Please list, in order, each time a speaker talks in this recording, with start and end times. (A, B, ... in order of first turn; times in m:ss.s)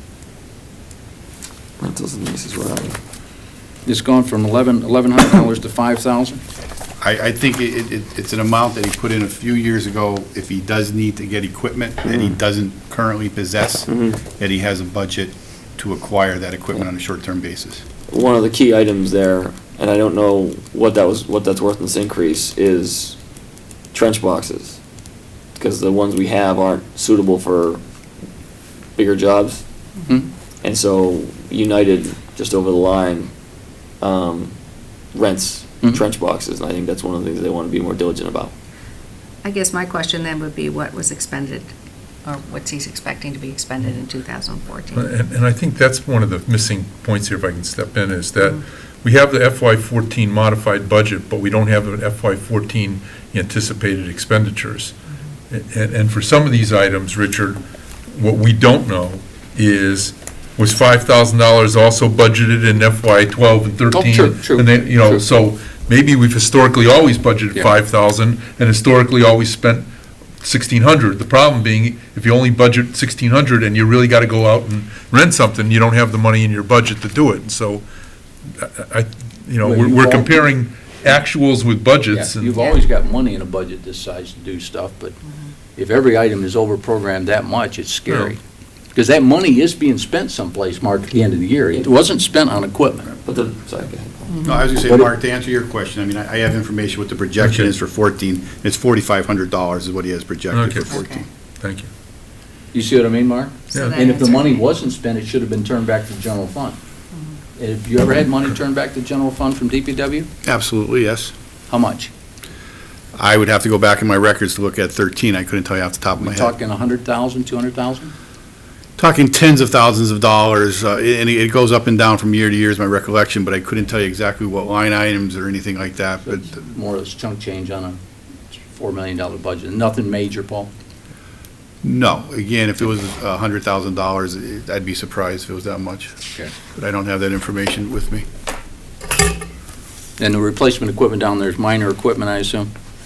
0:01.8-0:03.0 A
0:03.9-0:06.4 B
0:07.0-0:17.8 C
0:13.9-0:14.2 A
0:18.1-0:23.2 A
0:23.9-0:24.8 A
0:25.6-0:27.8 A
0:29.0-0:29.6 A
0:30.6-0:33.3 A
0:34.0-0:34.5 A
0:35.1-0:38.5 A
0:39.4-0:41.7 D
0:42.2-0:45.1 D
0:44.9-0:55.0 E
0:55.5-1:09.9 E
1:03.9-1:05.2 B
1:10.4-1:17.9 E
1:18.5-1:22.6 E
1:19.6-1:20.5 B
1:22.1-1:25.2 B
1:25.8-1:28.4 B
1:29.0-1:33.2 B
1:33.2-1:34.4 A
1:34.3-1:34.6 D
1:34.4-1:41.2 C
1:37.4-1:37.7 E
1:40.5-1:41.0 E
1:40.9-1:41.3 D
1:41.6-1:41.9 E
1:42.7-1:46.8 B
1:43.7-1:44.6 D
1:47.1-1:47.4 D
1:47.6-1:50.3 B
1:50.4-1:51.3 C
1:51.7-1:52.1 B
1:53.1-1:56.5 C
1:56.2-1:58.1 B
1:59.0-2:06.4 C
2:06.2-2:08.0 B
2:08.5-2:10.7 B
2:11.8-2:16.2 C
2:16.8-2:18.3 C
2:20.2-2:22.7 B